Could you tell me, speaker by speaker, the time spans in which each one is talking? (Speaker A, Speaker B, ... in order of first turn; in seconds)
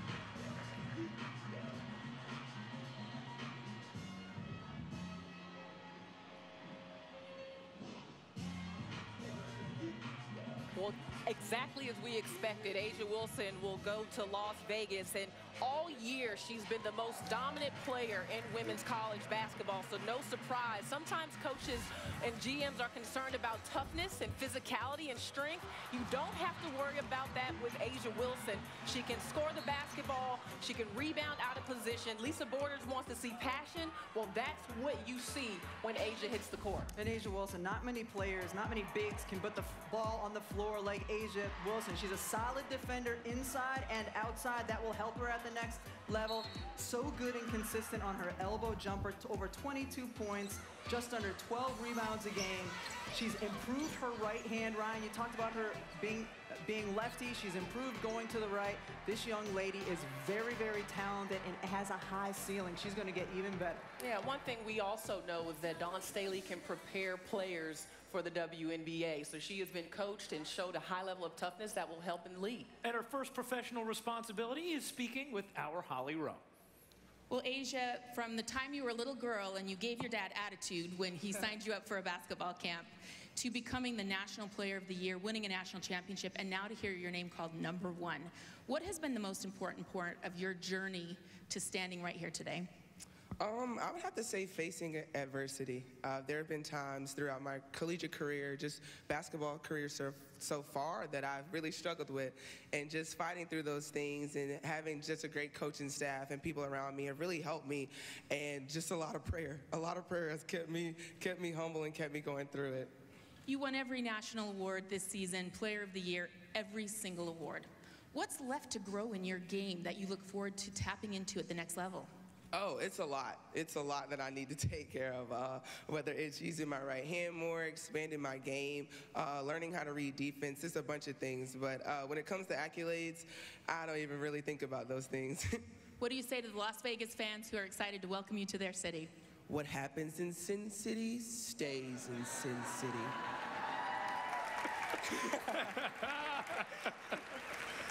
Speaker A: 10.7-36.9, 64.0-72.7
Speaker B: 37.0-63.9
Speaker C: 72.8-76.4, 145.6-146.6
Speaker D: 77.3-92.7, 113.5-122.1, 136.0-139.1
Speaker E: 93.4-112.9, 122.5-135.6, 139.5-143.1